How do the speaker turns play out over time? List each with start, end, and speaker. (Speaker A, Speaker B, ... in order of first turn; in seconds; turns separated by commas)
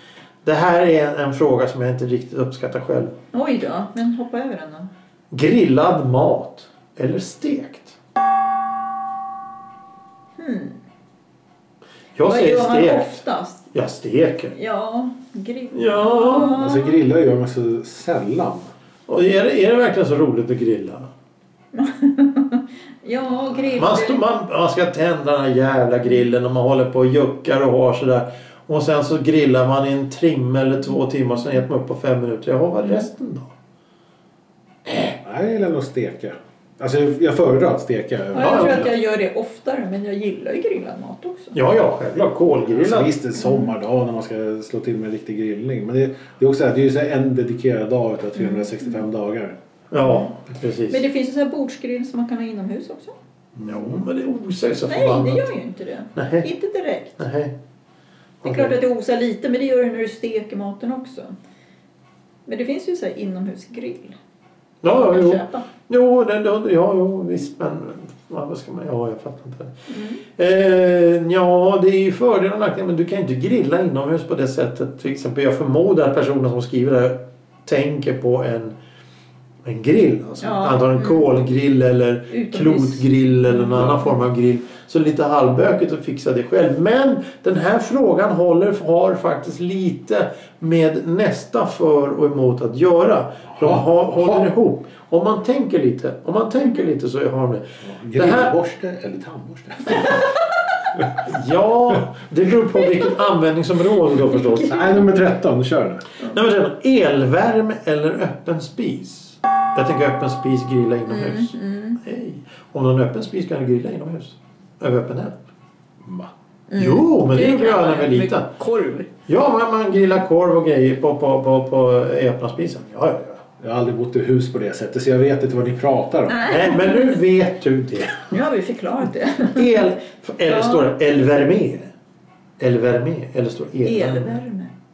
Speaker A: 0.4-3.1, Speaker B: 3.3-4.9, Speaker A: 5.3-8.0, Speaker B: 10.4-10.8, Speaker A: 12.2-13.2, Speaker B: 12.2-13.6, Speaker A: 13.7-14.6, Speaker B: 14.5-17.0, Speaker A: 15.7-16.6, Speaker C: 16.4-18.7, Speaker A: 19.1-21.1, Speaker B: 21.7-24.2, Speaker A: 23.8-33.5, Speaker A: 34.9-35.2, Speaker C: 35.2-38.9, Speaker B: 38.3-41.6, Speaker A: 38.4-38.9, Speaker A: 41.5-43.1, Speaker C: 42.7-49.6, Speaker B: 43.4-43.7, Speaker B: 48.4-48.7, Speaker A: 49.9-51.0, Speaker B: 50.0-50.4, Speaker B: 50.9-53.1, Speaker C: 53.6-54.0, Speaker A: 53.6-55.5, Speaker B: 54.9-57.2, Speaker A: 56.1-56.5, Speaker A: 57.2-57.5, Speaker A: 58.4-58.8, Speaker B: 58.4-61.3, Speaker B: 62.5-64.2, Speaker A: 64.8-69.7, Speaker B: 64.9-65.7, Speaker B: 69.9-70.2, Speaker A: 70.3-78.8, Speaker A: 79.6-98.5, Speaker B: 80.4-81.3, Speaker B: 82.3-84.1, Speaker C: 93.5-94.5, Speaker C: 97.8-100.2, Speaker B: 100.0-100.3, Speaker A: 101.2-105.0, Speaker B: 104.3-104.8, Speaker C: 104.6-106.0, Speaker A: 106.2-115.4, Speaker B: 111.1-112.0, Speaker C: 116.0-116.3, Speaker B: 116.7-119.1, Speaker A: 116.8-118.5, Speaker A: 119.3-123.4, Speaker C: 123.6-126.5, Speaker B: 126.3-127.2, Speaker A: 126.5-128.3, Speaker B: 128.3-129.8, Speaker A: 129.5-131.9, Speaker B: 130.5-130.9, Speaker A: 132.6-134.4, Speaker B: 133.8-134.7